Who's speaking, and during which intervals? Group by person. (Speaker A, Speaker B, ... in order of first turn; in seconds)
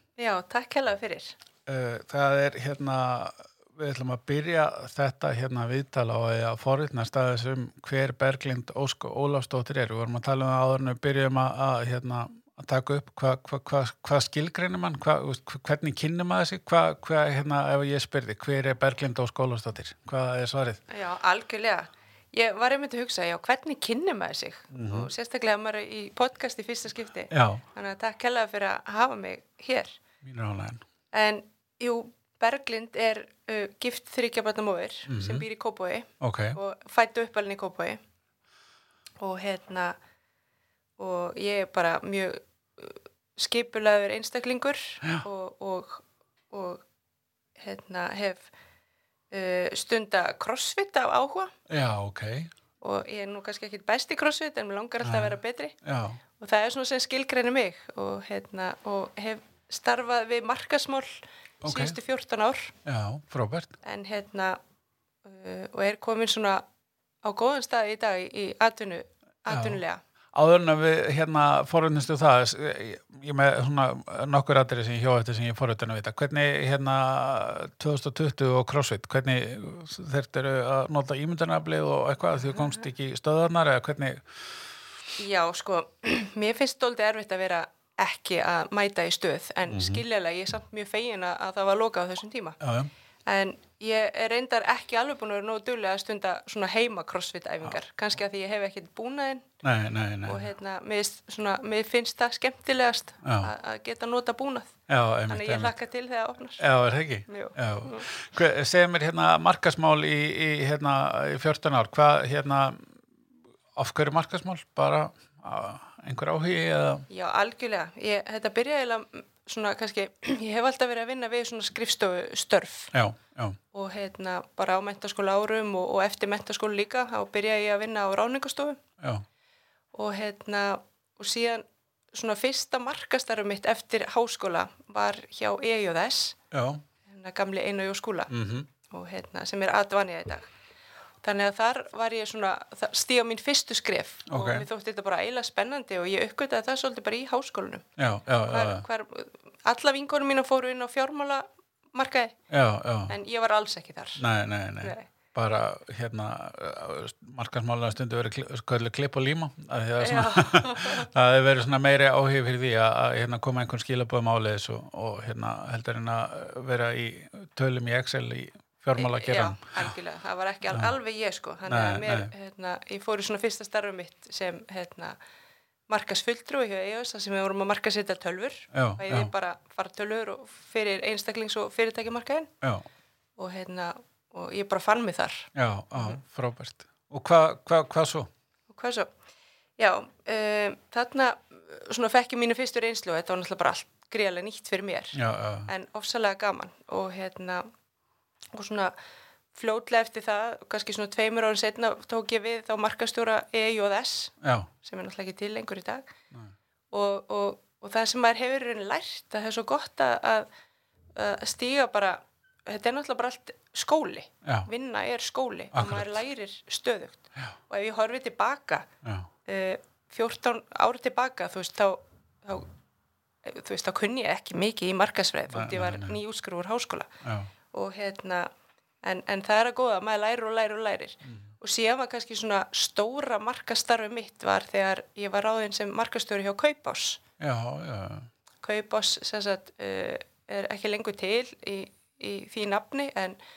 Speaker A: 0.2-1.4, 20.9-30.0, 31.1-38.0, 39.2-40.0, 41.0-46.8, 47.6-48.5, 49.3-51.5, 52.8-55.8, 56.4-62.7, 63.8-64.6, 65.2-66.6, 67.2-70.0, 82.5-82.8, 85.2-92.6, 93.3-99.5, 100.2-104.8, 105.3-106.6, 107.3-108.1, 117.1-122.9, 123.7-128.8, 129.9-136.4, 137.1-138.3, 138.9-140.4, 141.2-147.8, 148.5-152.4, 153.1-154.2, 154.8-155.1, 160.0-161.1, 169.0-175.2, 175.9-182.5, 183.4-186.2, 188.7-189.1, 189.8-197.7, 198.5-198.9, 199.5-206.1, 206.9-210.5, 211.2-218.9, 219.5-222.7, 223.4-227.1, 227.7-228.5, 229.0-237.2, 238.6-243.4
Speaker B: 1.7-20.8, 24.7-25.1, 27.3-27.6, 30.2-30.8, 35.1-35.5, 36.2-36.6, 51.7-52.5, 55.0-56.2, 61.6-62.0, 62.9-63.8, 69.5-69.8, 70.3-84.3, 89.7-90.0, 92.6-92.9, 99.6-100.5, 103.2-103.5, 104.9-105.7, 106.6-113.0, 113.8-117.1, 122.9-123.6, 136.5-136.8, 138.3-138.7, 144.3-144.7, 148.0-148.8, 152.5-153.1, 154.2-169.9, 170.7-170.9, 171.7-172.3, 178.7-179.3, 185.6-188.3, 195.1-195.7, 204.4-204.7, 215.7-216.2, 219.0-219.3, 225.5-226.2, 227.2-227.5, 237.4-238.3